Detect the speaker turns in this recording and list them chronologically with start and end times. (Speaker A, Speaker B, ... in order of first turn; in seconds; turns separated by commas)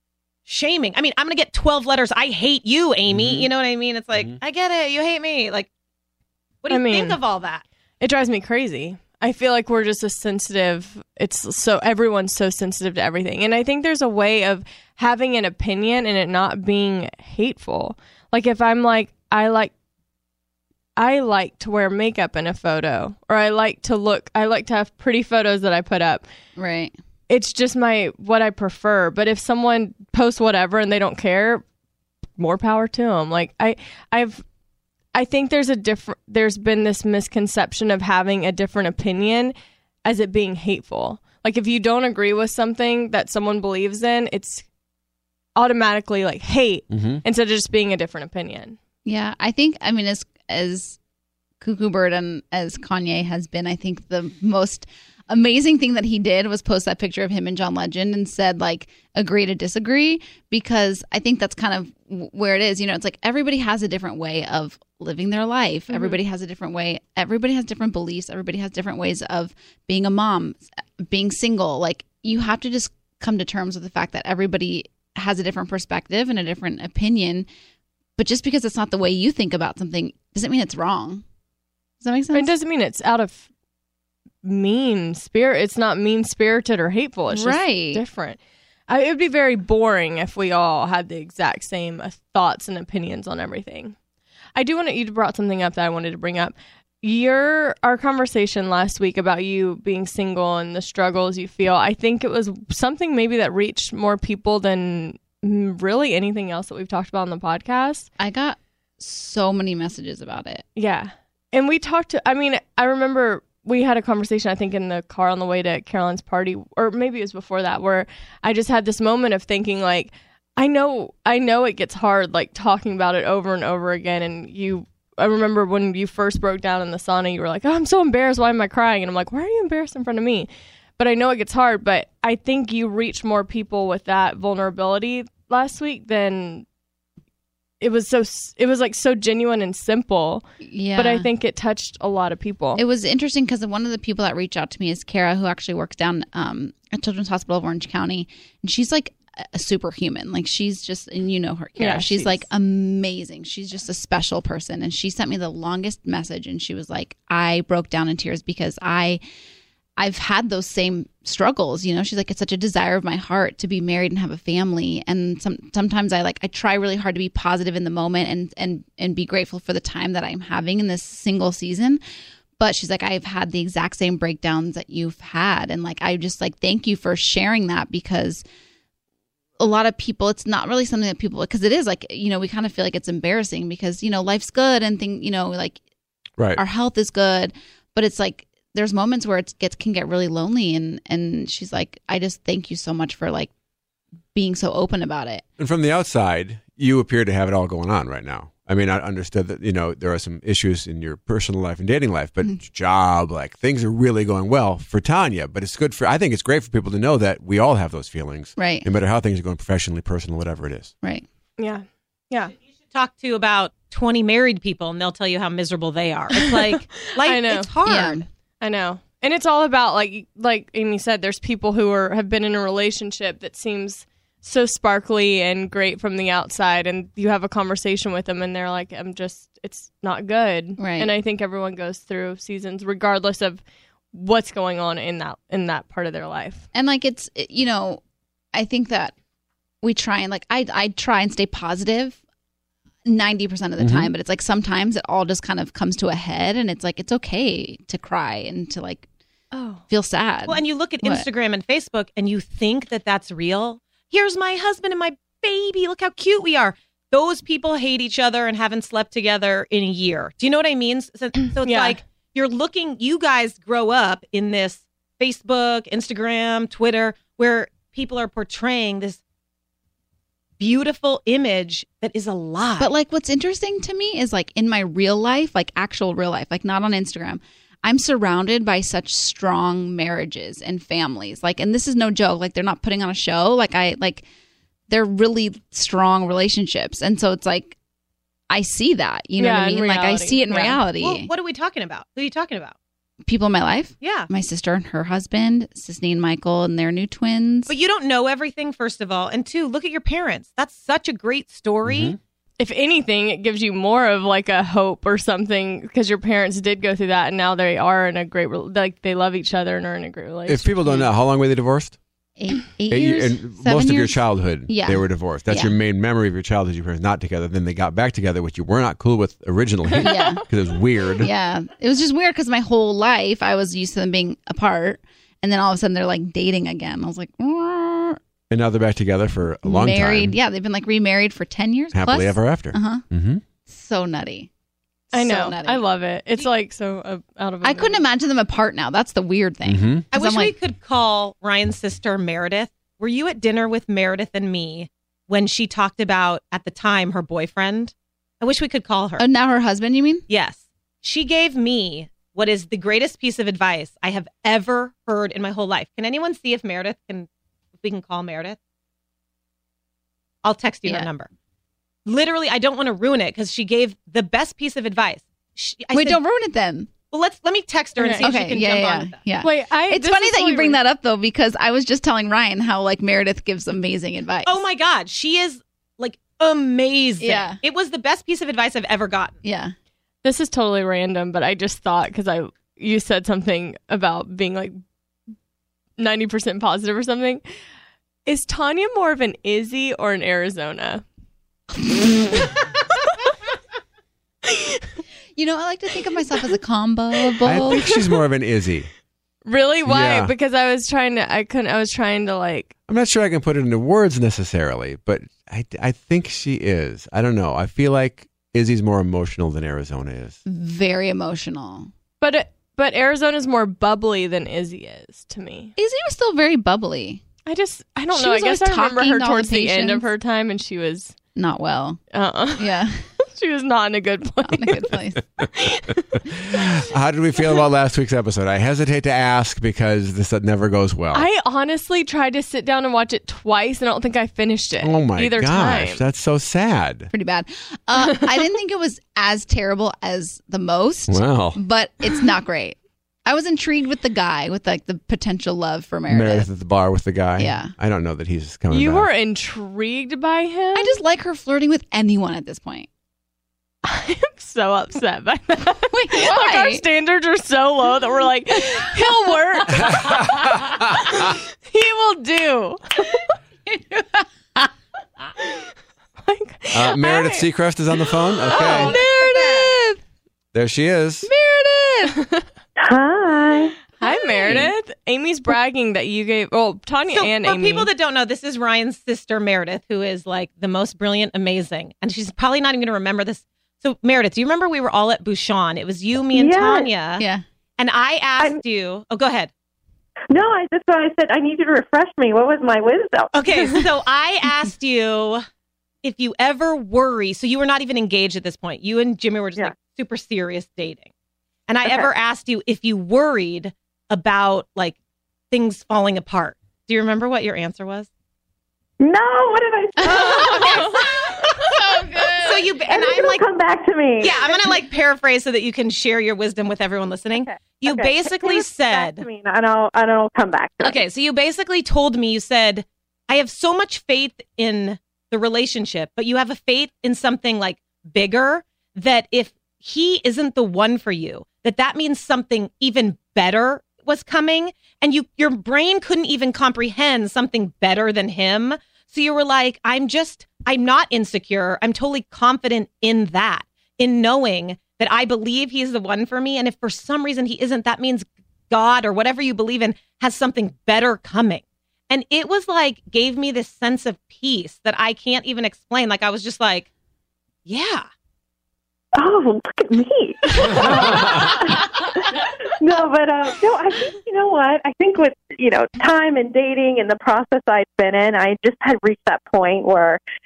Speaker A: 0.5-5.7, Speaker B: 3.1-3.5, Speaker A: 6.6-7.6, Speaker C: 6.7-7.2, Speaker C: 8.0-19.7, Speaker C: 21.0-26.2, Speaker D: 26.6-26.9, Speaker C: 27.3-31.6, Speaker C: 32.4-34.4, Speaker C: 35.1-44.6, Speaker C: 45.5-48.8, Speaker B: 46.9-47.2, Speaker D: 49.0-51.0, Speaker D: 51.6-77.5, Speaker C: 65.9-66.2, Speaker D: 78.2-81.2, Speaker D: 82.0-82.5, Speaker C: 82.3-83.5, Speaker C: 84.4-93.9, Speaker D: 87.3-88.0, Speaker C: 94.5-108.1, Speaker D: 108.2-110.6, Speaker C: 110.8-136.6, Speaker C: 137.8-142.8, Speaker D: 140.6-141.3, Speaker D: 142.8-159.2, Speaker C: 151.8-152.4, Speaker D: 160.0-172.0, Speaker D: 172.6-178.4, Speaker D: 179.6-185.8, Speaker D: 186.6-193.5, Speaker D: 194.3-195.4, Speaker B: 195.6-210.9, Speaker D: 208.6-208.9, Speaker C: 211.6-212.5, Speaker A: 212.9-218.2, Speaker C: 216.6-217.7, Speaker D: 217.8-218.2, Speaker C: 218.6-233.6, Speaker D: 230.8-231.1, Speaker C: 234.1-236.6, Speaker D: 236.7-238.0, Speaker D: 238.5-239.1, Speaker D: 239.8-242.2, Speaker D: 243.1-249.0, Speaker B: 243.8-244.1, Speaker C: 249.5-249.8, Speaker D: 249.9-251.2, Speaker A: 250.5-269.2, Speaker C: 261.6-262.0, Speaker A: 270.6-272.9, Speaker D: 272.8-284.2, Speaker D: 284.9-287.8, Speaker D: 288.5-291.3, Speaker C: 289.4-290.7, Speaker A: 290.5-292.7, Speaker D: 293.2-297.7, Speaker A: 294.0-294.3, Speaker A: 297.7-302.1, Speaker B: 301.8-302.2, Speaker C: 302.6-310.7, Speaker B: 310.5-312.0, Speaker D: 312.4-315.7, Speaker B: 312.9-321.3, Speaker C: 319.9-320.4, Speaker D: 320.0-320.4, Speaker D: 321.2-328.2, Speaker B: 328.5-330.4, Speaker D: 329.6-333.0, Speaker B: 331.9-333.4, Speaker D: 333.7-334.5, Speaker D: 335.1-335.8, Speaker C: 335.1-338.0, Speaker D: 337.6-340.6, Speaker B: 339.6-340.0, Speaker A: 340.1-349.2, Speaker D: 349.2-350.2, Speaker A: 350.3-357.3, Speaker A: 357.8-358.6, Speaker A: 360.4-361.3, Speaker A: 362.1-366.2, Speaker D: 365.9-366.9, Speaker A: 367.1-369.2, Speaker C: 368.0-368.3, Speaker D: 368.2-374.6, Speaker C: 369.4-370.8, Speaker A: 374.4-379.4, Speaker D: 377.2-377.6, Speaker D: 379.4-379.7, Speaker C: 380.2-384.8, Speaker C: 386.0-387.4, Speaker C: 388.2-391.0, Speaker C: 394.5-394.8, Speaker D: 395.4-397.8, Speaker B: 397.4-398.9, Speaker C: 397.8-398.1, Speaker C: 399.4-402.7, Speaker B: 399.8-400.3, Speaker B: 402.9-410.4, Speaker D: 410.4-411.9, Speaker C: 412.2-415.7, Speaker D: 415.8-417.2, Speaker C: 417.4-421.1, Speaker D: 418.1-420.0, Speaker D: 421.4-422.0, Speaker C: 422.1-424.9, Speaker D: 422.6-423.0, Speaker D: 424.4-425.2, Speaker C: 425.5-426.2, Speaker B: 426.4-431.3, Speaker C: 431.1-436.0, Speaker B: 434.8-437.1, Speaker D: 437.1-446.5, Speaker B: 441.1-441.6, Speaker B: 446.1-449.1, Speaker D: 447.4-447.7, Speaker C: 448.7-451.0, Speaker D: 450.7-452.9, Speaker C: 453.8-463.2, Speaker D: 455.9-456.8, Speaker B: 459.7-461.3, Speaker D: 463.7-464.7, Speaker C: 465.4-465.6, Speaker C: 466.2-467.4, Speaker B: 466.7-469.0, Speaker D: 468.5-470.0, Speaker C: 468.5-468.9, Speaker A: 468.6-469.6, Speaker B: 470.5-471.3, Speaker D: 471.2-472.2, Speaker C: 472.1-472.4, Speaker E: 472.8-473.8, Speaker C: 474.0-477.9, Speaker D: 474.0-474.7, Speaker A: 477.1-487.2, Speaker E: 486.3-486.9, Speaker A: 487.8-489.5, Speaker E: 490.3-493.8, Speaker A: 493.3-495.4, Speaker A: 496.0-501.1, Speaker A: 501.7-504.9, Speaker A: 505.5-508.1, Speaker E: 509.0-511.6, Speaker A: 510.0-511.3, Speaker D: 511.8-512.5, Speaker A: 512.4-513.5, Speaker E: 512.9-514.8, Speaker A: 514.2-519.2, Speaker E: 517.3-521.0, Speaker A: 520.8-556.9, Speaker A: 557.6-558.0, Speaker E: 559.1-570.2